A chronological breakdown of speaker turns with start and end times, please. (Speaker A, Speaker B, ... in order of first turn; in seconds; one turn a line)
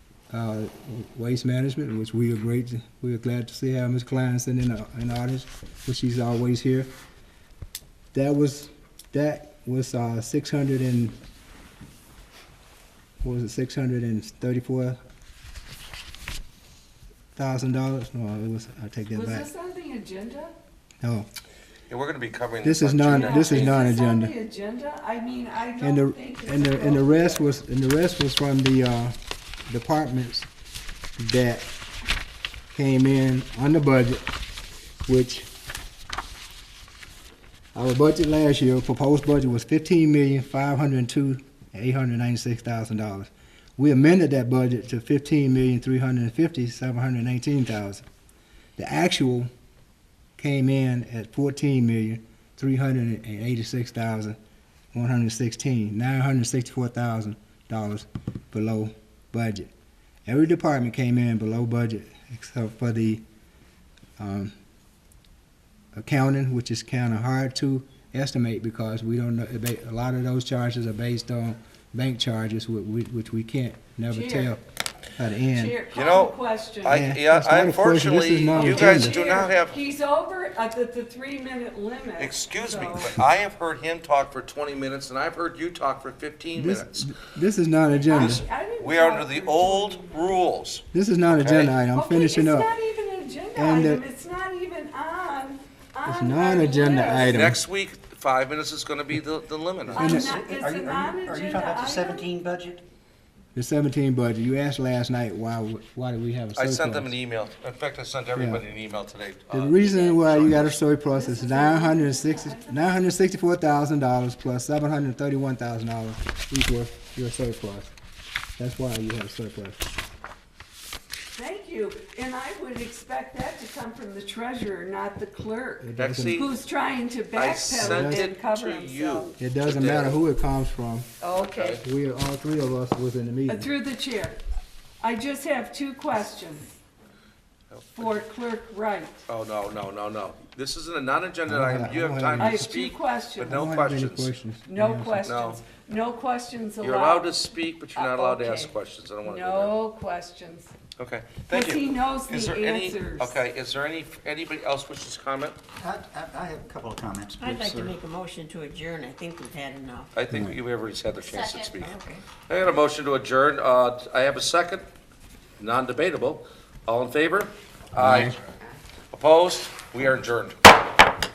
Speaker A: 0.3-6.9
Speaker A: 8.1-11.2
Speaker A: 13.2-15.0
Speaker A: 17.4-19.5
Speaker B: 19.1-20.5
Speaker A: 21.0-21.3
Speaker C: 21.9-23.8
Speaker A: 22.6-24.3
Speaker B: 23.1-27.4
Speaker A: 25.8-29.1
Speaker A: 29.7-30.5
Speaker A: 31.2-31.7
Speaker A: 32.7-34.3
Speaker A: 35.1-35.5
Speaker A: 37.7-48.0
Speaker A: 48.8-49.5
Speaker A: 50.4-54.4
Speaker A: 54.9-59.7
Speaker A: 60.3-63.2
Speaker A: 64.2-64.5
Speaker A: 66.0-74.6
Speaker B: 74.1-74.5
Speaker A: 75.2-75.8
Speaker B: 75.5-77.0
Speaker C: 75.9-79.8
Speaker A: 76.9-79.5
Speaker B: 78.5-83.2
Speaker C: 82.2-87.1
Speaker A: 86.5-88.4
Speaker B: 88.0-90.3
Speaker C: 88.1-91.8
Speaker A: 90.9-92.7
Speaker B: 91.9-97.5
Speaker A: 93.5-94.0
Speaker A: 96.0-97.6
Speaker C: 97.1-100.1
Speaker B: 99.9-102.3
Speaker A: 99.9-100.4
Speaker D: 100.0-102.8
Speaker A: 103.5-107.1
Speaker C: 106.5-110.8
Speaker A: 108.4-108.6
Speaker A: 109.5-117.9
Speaker B: 111.1-112.8
Speaker A: 118.6-119.8
Speaker B: 121.3-129.4
Speaker A: 125.8-126.5
Speaker C: 126.0-126.5
Speaker C: 127.4-130.2
Speaker A: 127.8-128.3
Speaker A: 129.4-131.1
Speaker B: 131.2-131.8
Speaker C: 131.4-131.8
Speaker A: 131.8-133.7
Speaker B: 133.5-134.4
Speaker B: 135.0-136.7
Speaker C: 137.7-138.1
Speaker B: 137.9-139.2
Speaker C: 139.3-144.3
Speaker A: 141.5-142.7
Speaker B: 142.4-143.6
Speaker A: 143.4-145.3
Speaker B: 144.7-147.4
Speaker C: 145.2-145.6
Speaker C: 146.8-149.8
Speaker B: 147.9-148.7
Speaker B: 149.2-150.7
Speaker C: 151.0-155.6
Speaker B: 151.5-153.4
Speaker D: 155.8-157.9
Speaker E: 157.4-160.1
Speaker C: 160.2-162.0
Speaker A: 160.3-160.6
Speaker E: 161.5-162.2
Speaker C: 162.5-164.9
Speaker C: 165.6-168.4
Speaker A: 168.0-168.4
Speaker C: 169.1-170.6